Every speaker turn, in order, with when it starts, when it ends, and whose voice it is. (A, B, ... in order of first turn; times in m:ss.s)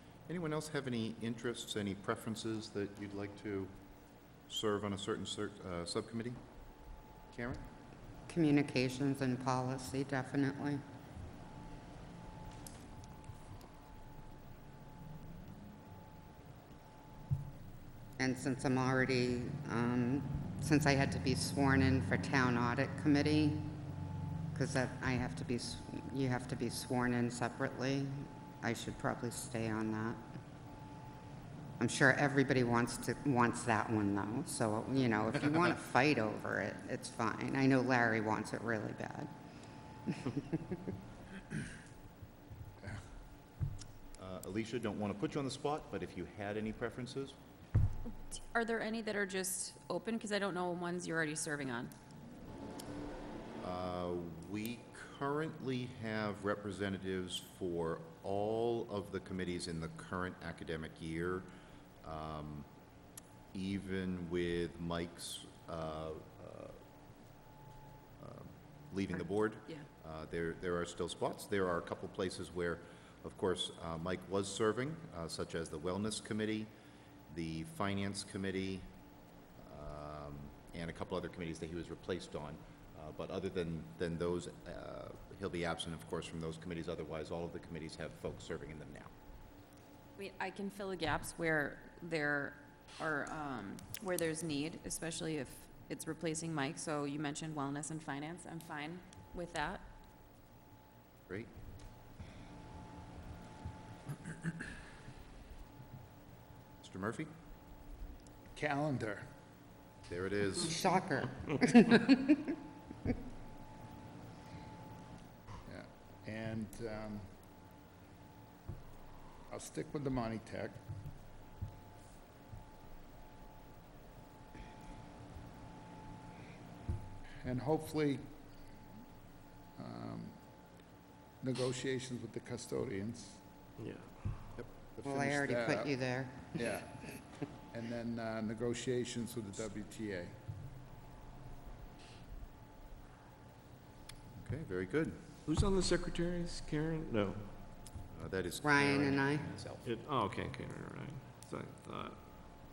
0:00.3-0:03.7 A
0:04.5-0:06.4 A
0:07.3-0:07.6 A
0:08.3-0:10.8 B
0:18.2-0:23.7 B
0:24.6-0:30.2 B
0:31.8-0:39.3 B
0:40.1-0:40.8 B
0:44.2-0:47.4 A
0:48.3-0:51.9 C
0:53.6-1:01.5 A
1:02.0-1:02.7 A
1:03.5-1:06.8 A
1:08.2-1:16.7 A
1:17.3-1:18.9 A
1:19.6-1:29.1 A
1:30.2-1:39.8 C
1:46.8-1:47.3 A
1:48.6-1:49.2 D
1:50.1-1:50.8 A
1:50.6-1:52.5 B
1:55.7-1:57.2 D
1:59.5-2:00.7 D
2:07.4-2:08.2 D
2:09.8-2:10.3 D
2:11.4-2:13.2 D
2:13.8-2:14.1 E
2:15.0-2:15.9 D
2:15.0-2:16.8 B
2:17.7-2:20.3 D
2:24.4-2:25.2 A
2:25.5-2:27.4 E
2:28.1-2:29.9 A
2:28.6-2:29.4 B
2:29.8-2:32.2 E